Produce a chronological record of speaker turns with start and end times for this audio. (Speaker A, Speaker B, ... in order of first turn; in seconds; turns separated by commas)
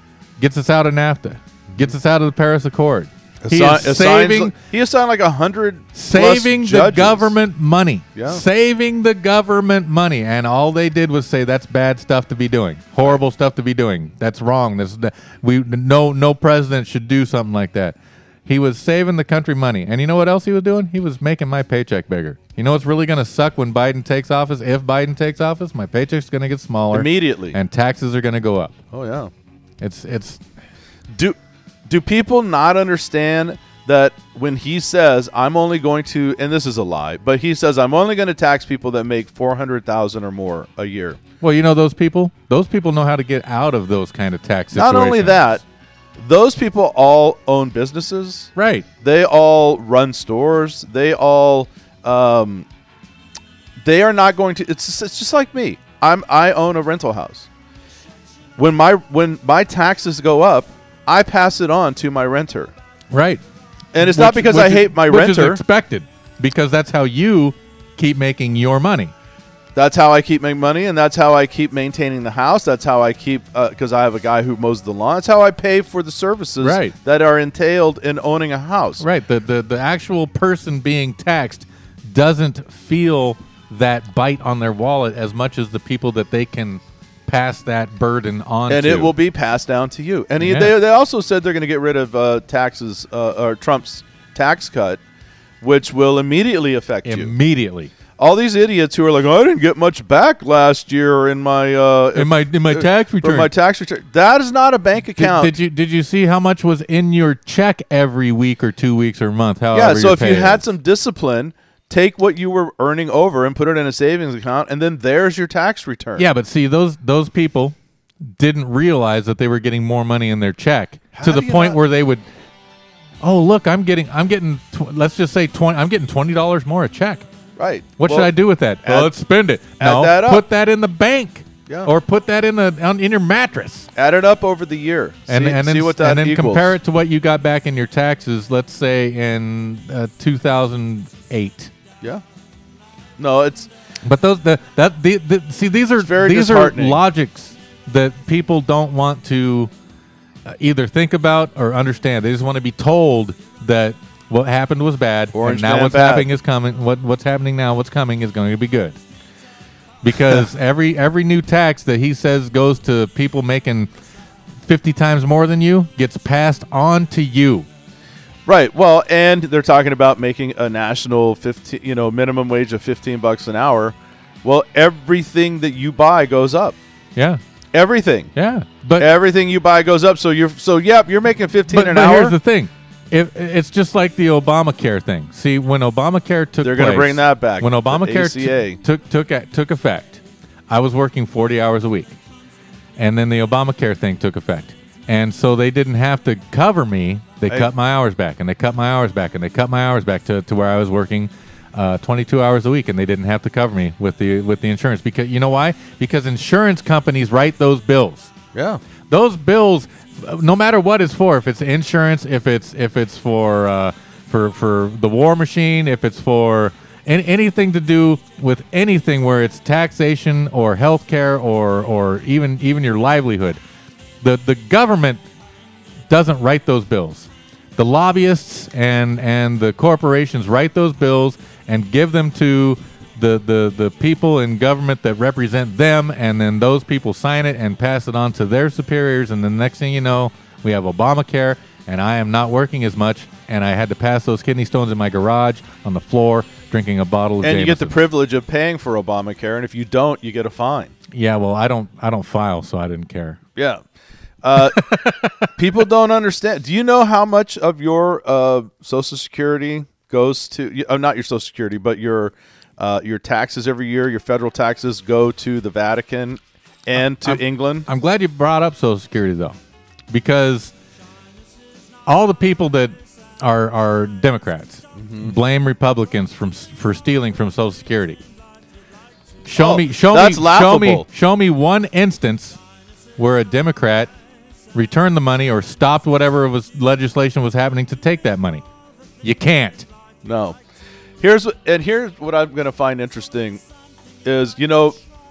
Speaker A: 0.4-4.5, Speaker B: 3.4-7.3, Speaker A: 6.0-28.8, Speaker B: 8.2-8.4, Speaker B: 26.9-27.6, Speaker B: 28.9-29.3, Speaker A: 29.8-30.4, Speaker B: 31.1-41.2, Speaker A: 41.4-45.5, Speaker B: 44.7-45.6, Speaker B: 46.2-52.7, Speaker A: 48.6-48.9, Speaker B: 53.8-57.5, Speaker B: 58.6-62.7, Speaker A: 63.1-63.4, Speaker B: 63.9-65.6, Speaker A: 64.0-69.1, Speaker B: 69.8-79.0, Speaker A: 76.6-77.0, Speaker A: 79.0-89.1, Speaker B: 88.7-95.0, Speaker A: 90.4-90.7, Speaker B: 95.6-97.3, Speaker A: 97.0-97.9, Speaker B: 98.2-105.5, Speaker A: 102.2-103.5, Speaker A: 105.2-110.6, Speaker B: 109.7-116.3, Speaker A: 116.2-122.3, Speaker B: 121.1-121.8, Speaker A: 123.2-127.3, Speaker B: 127.6-128.3, Speaker A: 128.0-133.9, Speaker B: 128.8-129.1, Speaker B: 129.8-130.4, Speaker B: 133.9-136.8, Speaker A: 135.3-141.7, Speaker B: 143.2-143.7, Speaker A: 144.0-149.7, Speaker B: 146.0-147.0, Speaker A: 150.4-159.0, Speaker B: 155.3-156.3, Speaker A: 160.0-163.9, Speaker A: 164.6-167.7, Speaker B: 168.5-176.8, Speaker A: 177.2-177.4, Speaker B: 177.7-178.3, Speaker A: 178.3-179.1, Speaker B: 179.0-182.4, Speaker A: 181.7-192.2, Speaker B: 186.6-188.8, Speaker A: 193.0-208.3, Speaker B: 208.5-208.8, Speaker A: 209.1-223.6, Speaker A: 224.2-225.2, Speaker A: 226.1-248.0, Speaker B: 247.4-250.9, Speaker A: 251.1-253.4, Speaker B: 253.6-253.8, Speaker B: 254.4-254.9, Speaker A: 254.6-255.3, Speaker B: 255.5-267.9, Speaker A: 267.0-269.6, Speaker A: 270.1-270.7, Speaker A: 272.1-278.2, Speaker B: 275.0-275.3, Speaker A: 279.4-282.6, Speaker B: 279.6-281.1, Speaker A: 283.2-284.1, Speaker A: 284.7-288.6, Speaker A: 289.2-289.9, Speaker B: 290.2-290.6, Speaker B: 291.2-293.6, Speaker B: 294.2-295.0